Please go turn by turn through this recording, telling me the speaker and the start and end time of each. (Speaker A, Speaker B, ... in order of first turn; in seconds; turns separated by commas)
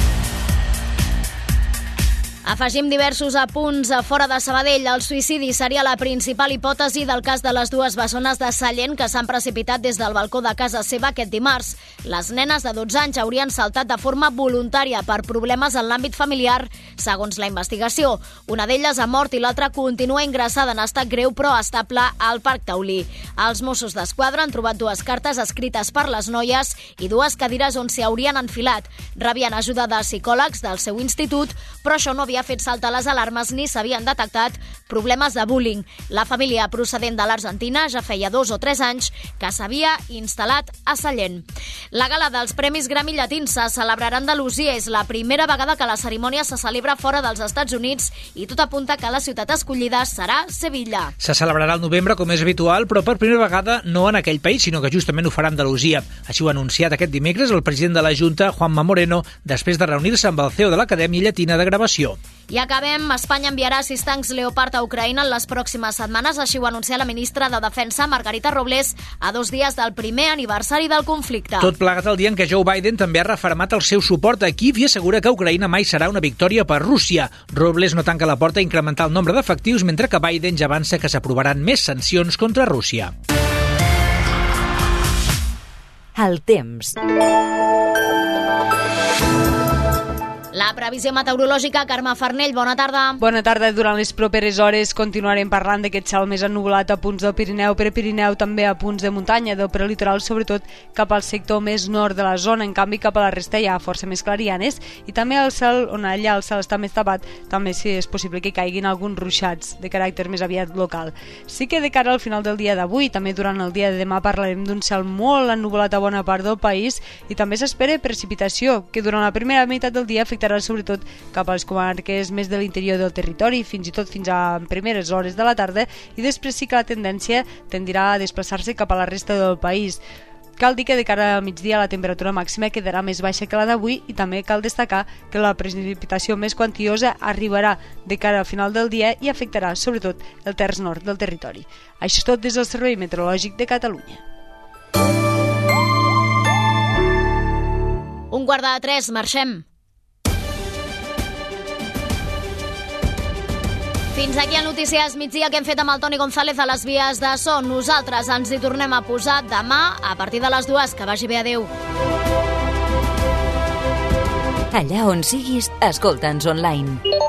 Speaker A: 2.5-51.1, Speaker B: 51.2-62.2, Speaker A: 62.5-71.7, Speaker B: 71.6-83.1, Speaker C: 86.2-87.0, Speaker A: 90.5-93.2, Speaker D: 93.2-130.0, Speaker D: 130.6-144.2, Speaker A: 148.3-149.7, Speaker A: 154.1-161.7, Speaker C: 164.7-167.0